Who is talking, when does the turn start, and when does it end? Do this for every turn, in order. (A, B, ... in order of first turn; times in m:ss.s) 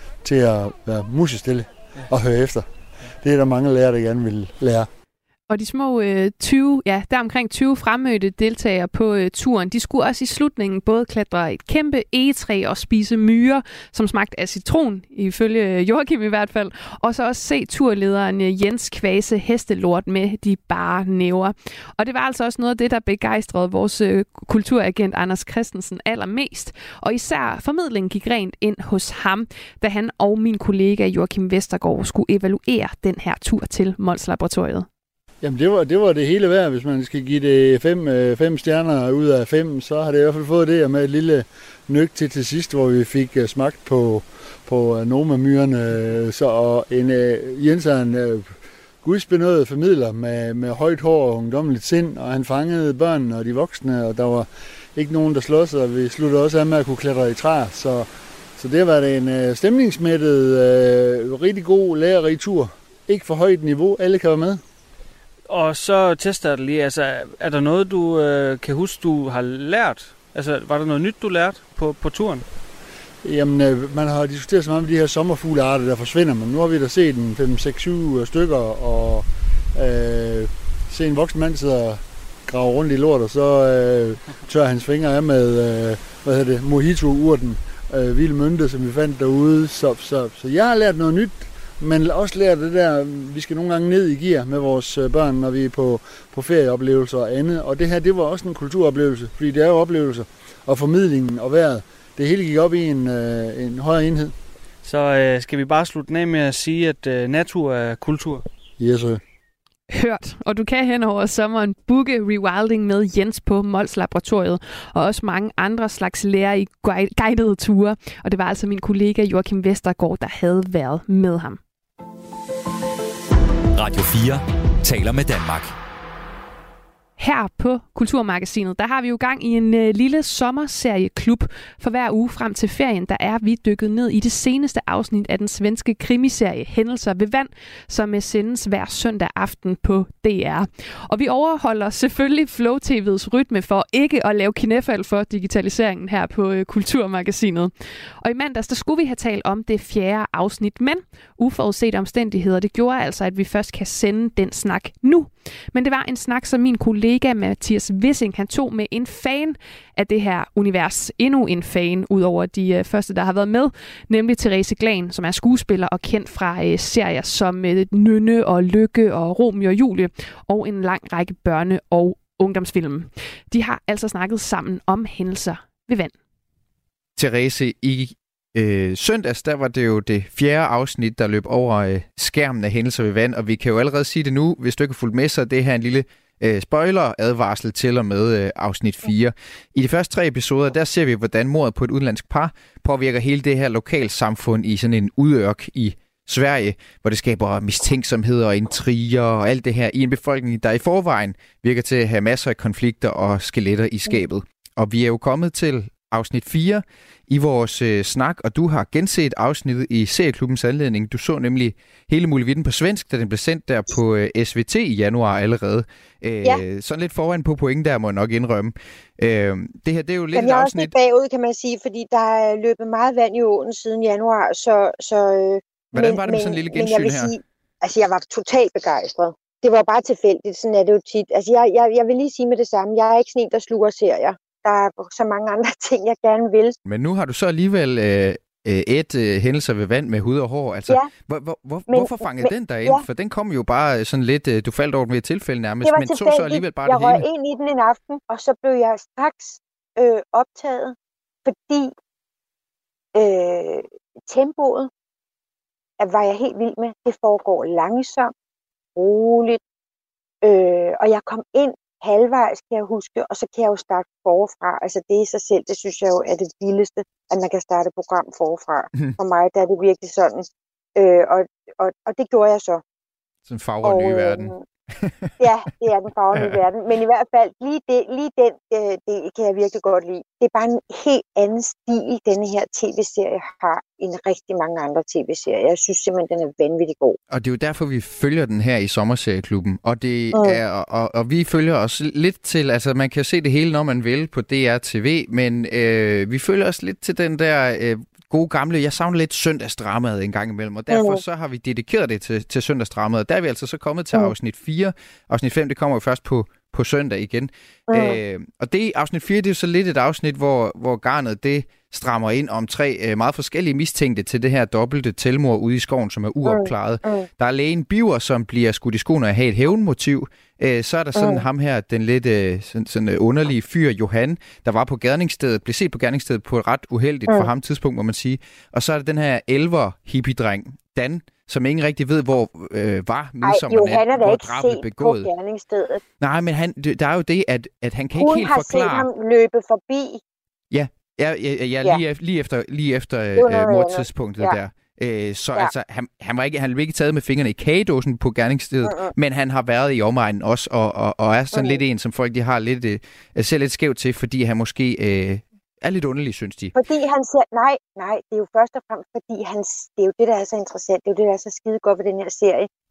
0:00.2-0:04.9 A
0:05.5-0:34.9 B
0:35.4-1:04.6 A
1:05.5-1:12.4 C
1:13.2-1:44.3 A
1:44.8-1:48.4 C
1:48.8-1:49.2 A
1:49.9-2:01.6 B
2:03.8-2:05.8 D
2:07.2-2:56.1 B
2:57.2-3:40.9 E
3:40.3-3:56.8 F
3:45.9-3:47.3 E
3:56.8-4:07.2 E
4:00.9-4:01.1 F
4:01.9-4:03.0 F
4:05.8-4:11.9 F
4:13.1-4:14.9 F
4:16.0-4:18.3 F
4:19.0-4:19.6 F
4:20.4-4:32.8 F
4:33.4-4:35.3 E
4:33.8-4:34.6 F
4:35.4-4:47.2 F
4:36.3-4:36.6 E
4:47.3-5:35.3 E
4:50.3-4:50.6 F
5:00.9-5:01.2 F
5:07.9-5:08.2 F
5:16.4-5:17.3 F
5:21.1-5:21.4 F
5:33.4-5:36.0 F
5:36.2-5:39.1 E
5:38.1-5:40.2 F
5:40.7-5:56.7 E
5:43.4-5:44.6 F
5:48.8-5:49.1 F
5:51.5-5:51.8 F
5:56.7-6:02.7 F